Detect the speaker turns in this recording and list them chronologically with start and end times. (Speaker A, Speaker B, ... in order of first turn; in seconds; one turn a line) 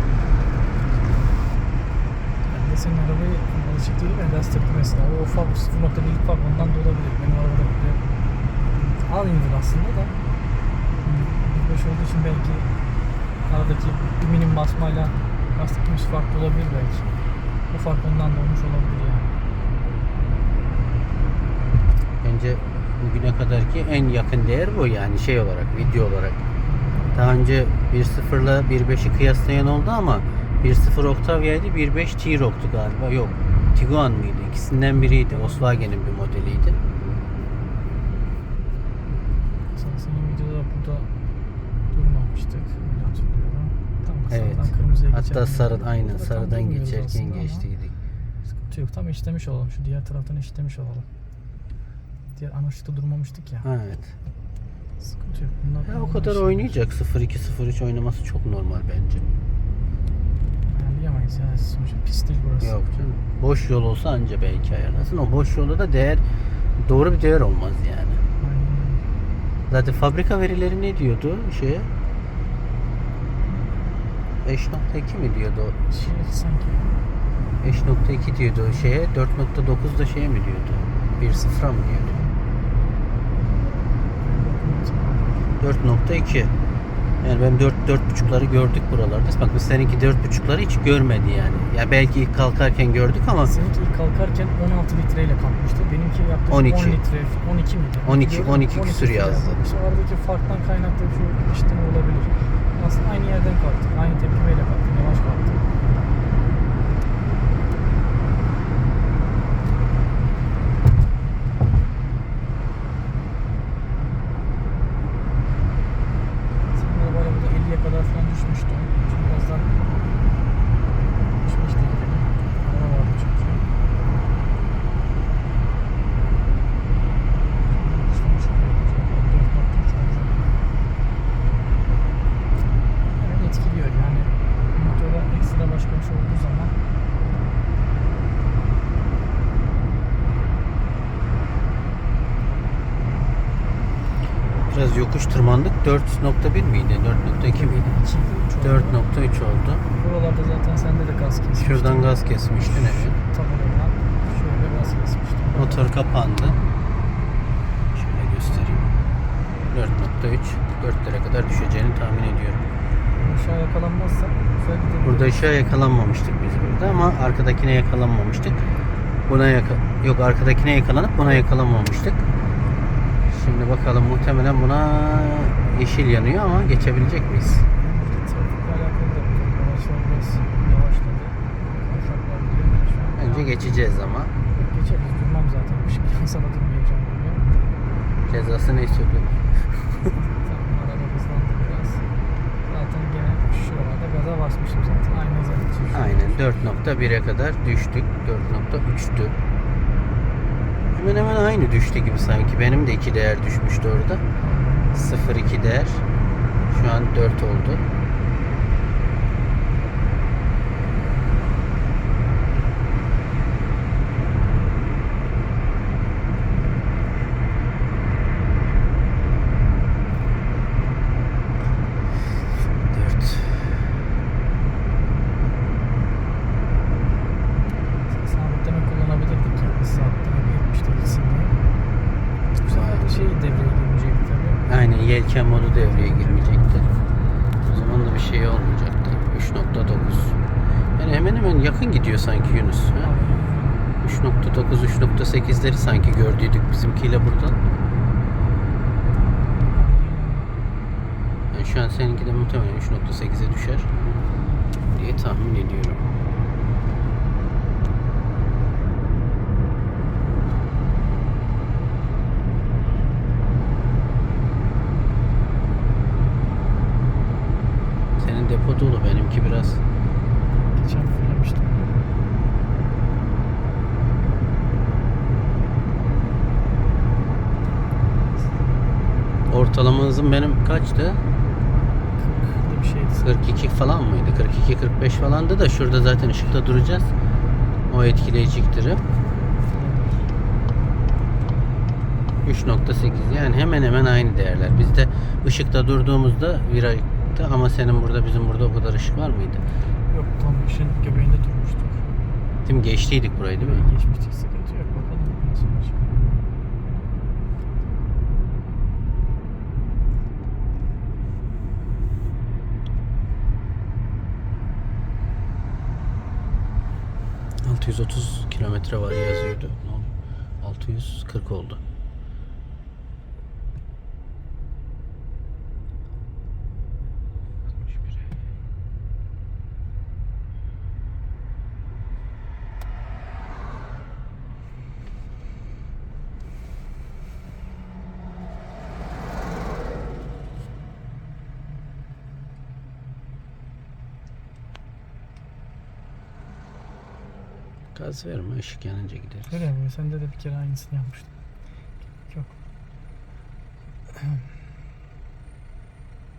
Speaker A: 2.5-8.0
Speaker A: 9.1-10.1
Speaker A: 11.0-12.7
Speaker A: 13.5-17.1
Speaker A: 17.7-19.3
Speaker B: 22.2-26.4
Speaker B: 27.1-36.8
Speaker A: 34.9-35.9
Speaker A: 39.7-41.1
Speaker A: 41.9-47.7
Speaker B: 44.3-47.9
Speaker A: 48.5-51.1
Speaker A: 52.3-53.7
Speaker B: 53.6-54.1
Speaker A: 55.0-56.8
Speaker B: 55.9-59.2
Speaker A: 60.7-62.8
Speaker B: 62.6-66.2
Speaker B: 66.8-68.2
Speaker A: 68.4-69.0
Speaker B: 69.7-71.9
Speaker B: 74.4-75.8
Speaker A: 75.9-76.9
Speaker B: 77.6-82.2
Speaker A: 84.3-85.3
Speaker B: 85.6-86.5
Speaker B: 87.2-93.5
Speaker A: 93.4-105.6
Speaker B: 96.5-97.0
Speaker B: 98.0-99.6
Speaker A: 116.7-119.7
Speaker A: 121.4-123.6
Speaker A: 127.7-130.5
Speaker A: 133.2-136.7
Speaker B: 144.7-148.0
Speaker A: 147.5-149.0
Speaker B: 148.6-149.8
Speaker A: 150.0-155.9
Speaker B: 151.5-153.2
Speaker B: 155.5-156.6
Speaker B: 157.9-158.9
Speaker B: 159.7-162.6
Speaker A: 163.2-165.4
Speaker B: 165.0-168.6
Speaker B: 169.3-172.2
Speaker B: 173.3-177.7
Speaker A: 177.8-183.6
Speaker B: 183.2-184.3
Speaker A: 184.5-187.4
Speaker B: 188.3-190.1
Speaker A: 190.3-192.0
Speaker A: 192.7-196.4
Speaker B: 195.9-199.3
Speaker B: 200.9-204.2
Speaker A: 204.4-205.2
Speaker B: 204.9-206.0
Speaker B: 206.7-207.8
Speaker B: 222.8-223.8
Speaker A: 228.1-231.6
Speaker A: 232.6-234.7
Speaker B: 232.7-233.2
Speaker B: 234.7-236.9
Speaker A: 235.8-236.6
Speaker B: 237.6-240.4
Speaker B: 241.0-243.1
Speaker A: 243.0-243.8
Speaker B: 244.0-247.6
Speaker A: 249.7-250.5
Speaker B: 251.5-253.9
Speaker B: 254.9-256.0
Speaker B: 268.2-269.8
Speaker A: 270.7-271.9
Speaker B: 279.5-281.2
Speaker A: 282.2-283.5
Speaker B: 283.2-287.1
Speaker B: 287.9-289.0
Speaker A: 289.7-290.2
Speaker B: 292.4-299.6
Speaker A: 300.1-302.0
Speaker B: 302.6-303.9
Speaker A: 303.6-306.2
Speaker B: 317.6-320.1
Speaker B: 320.6-321.8
Speaker B: 347.9-349.6
Speaker A: 349.5-351.3
Speaker A: 352.3-352.5